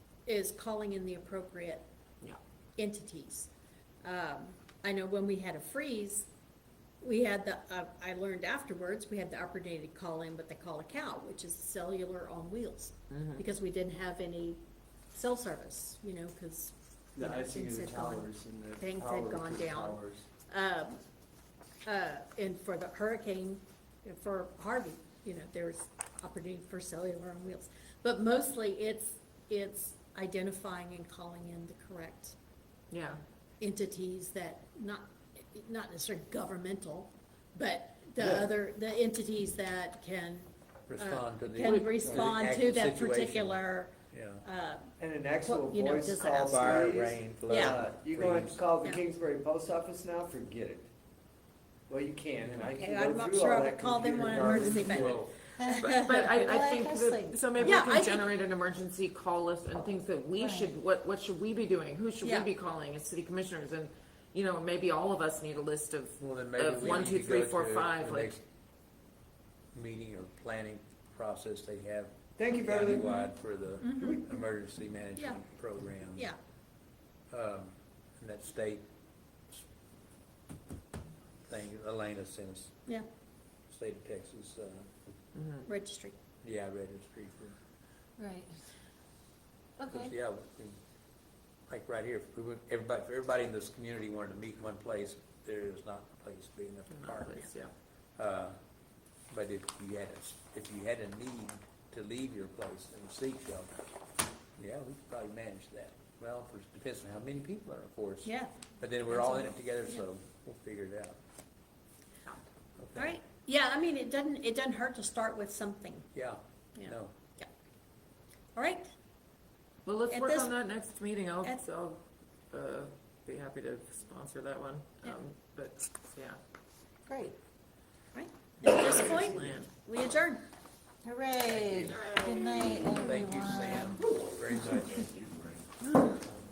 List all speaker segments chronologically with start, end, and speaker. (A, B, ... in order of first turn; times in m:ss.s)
0:00.3-0:01.8 A
0:02.8-0:03.5 A
0:04.0-0:06.3 A
0:07.0-0:14.6 A
0:13.1-0:13.4 B
0:15.1-0:21.0 A
0:17.2-0:20.3 C
0:21.9-0:32.4 A
0:32.9-0:33.2 B
0:33.6-0:44.9 A
0:38.2-0:38.6 C
0:40.9-0:44.4 D
0:41.6-0:42.2 B
0:45.0-0:50.9 C
0:45.4-0:47.8 A
0:46.5-0:48.6 D
0:51.9-0:55.3 C
0:52.8-0:56.3 A
0:54.8-0:55.4 D
0:55.6-0:57.7 E
0:55.6-1:08.3 B
0:57.6-0:58.2 A
1:00.4-1:00.7 E
1:02.2-1:02.5 A
1:06.2-1:08.4 D
1:09.7-1:16.3 D
1:12.4-1:13.2 C
1:13.8-1:14.3 A
1:17.3-1:18.8 D
1:21.5-1:22.8 D
1:23.7-1:24.9 D
1:25.4-1:25.7 B
1:25.7-1:26.2 A
1:26.4-1:27.6 D
1:28.2-1:28.6 E
1:29.8-1:30.1 E
1:29.9-1:30.8 D
1:31.7-1:37.5 D
1:36.9-1:37.7 B
1:38.2-1:38.6 D
1:39.3-1:43.9 D
1:44.6-1:51.2 D
1:48.2-1:48.5 A
1:49.1-1:50.0 A
1:52.8-1:53.2 D
1:53.0-1:56.1 A
1:56.1-1:57.1 D
1:56.8-1:57.5 A
1:58.6-1:58.9 A
1:59.9-2:06.4 B
2:00.1-2:00.5 A
2:07.1-2:07.4 E
2:08.1-2:10.5 A
2:08.6-2:09.7 B
2:11.0-2:14.1 E
2:11.4-2:12.0 D
2:12.9-2:15.3 D